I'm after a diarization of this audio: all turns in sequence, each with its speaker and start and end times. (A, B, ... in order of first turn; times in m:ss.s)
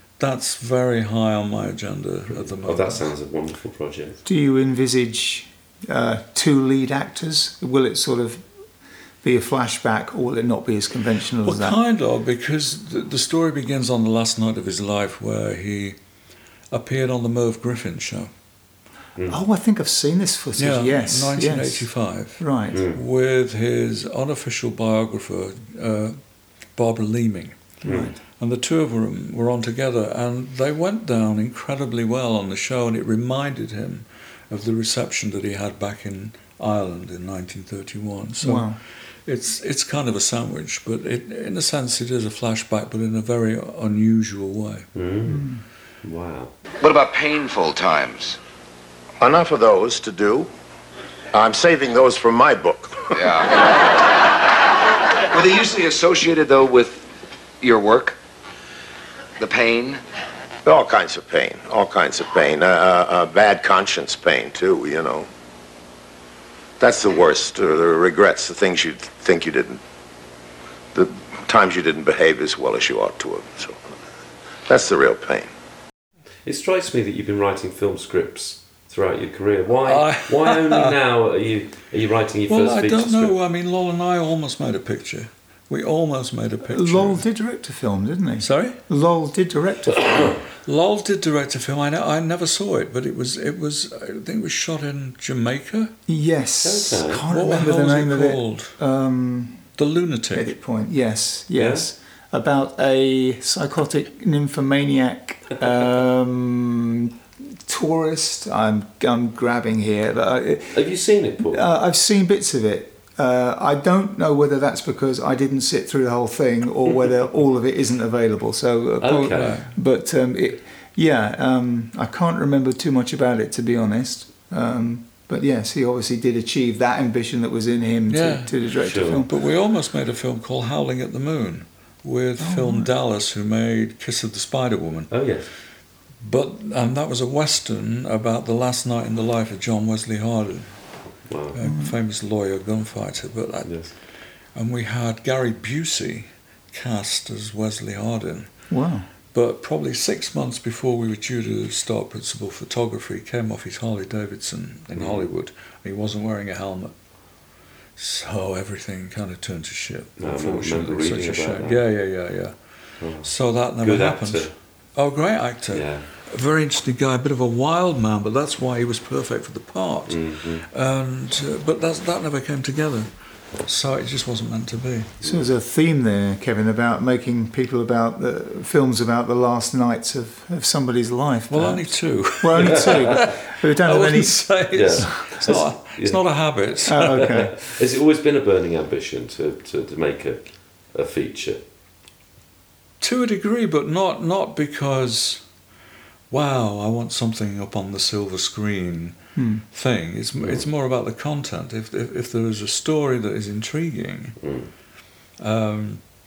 0:00.2-0:03.1 A
0:02.3-0:04.2 B
0:04.2-0:08.5 C
0:09.2-0:11.8 C
0:11.4-0:16.0 A
0:16.7-0:18.3 A
0:19.2-0:19.4 B
0:19.3-0:22.8 C
0:20.6-0:26.2 A
0:22.7-0:23.0 B
0:26.7-0:44.9 A
0:27.8-0:28.1 C
0:27.8-0:28.1 B
0:38.4-0:38.8 C
0:44.9-0:46.5 B
0:45.3-0:45.6 C
0:46.8-0:48.4 D
0:49.2-0:50.5 E
0:51.3-0:53.2 E
0:53.2-0:53.9 D
0:55.3-0:57.1 D
0:57.6-0:58.2 D
0:59.4-1:00.0 D
1:00.6-1:05.3 E
1:06.8-1:09.8 E
1:10.9-1:13.8 E
1:14.6-1:15.5 E
1:16.4-1:23.3 B
1:19.8-1:21.0 A
1:22.5-1:27.2 A
1:26.7-1:30.4 C
1:28.4-1:28.8 A
1:30.6-1:36.0 A
1:36.1-1:39.7 C
1:36.6-1:37.3 B
1:37.2-1:38.8 A
1:39.8-1:40.6 A
1:40.3-2:09.3 C
1:41.5-1:41.9 B
1:50.7-1:51.7 B
1:59.0-1:59.6 B
1:59.3-1:59.8 A
2:08.1-2:15.3 A
2:08.8-2:09.3 B
2:12.4-2:12.9 C
2:15.1-2:15.5 B
2:16.2-2:24.0 A
2:21.2-2:21.6 B
2:21.6-2:21.9 C
2:23.6-2:23.9 B
2:24.5-2:28.5 A
2:28.7-2:29.1 C
2:29.3-2:36.9 A
2:34.9-2:35.3 B
2:38.0-2:55.1 A
2:40.2-2:41.8 B
2:43.0-2:44.5 B
2:45.7-2:46.1 B
2:50.1-2:50.7 B
2:55.2-3:05.6 C
3:01.5-3:07.3 A
3:02.6-3:03.0 B
3:04.7-3:11.6 B
3:06.8-3:07.6 C
3:13.0-3:15.4 A
3:16.3-3:24.5 A
3:19.4-3:19.6 C
3:20.4-3:20.6 B
3:24.4-3:24.7 B
3:25.4-3:26.0 A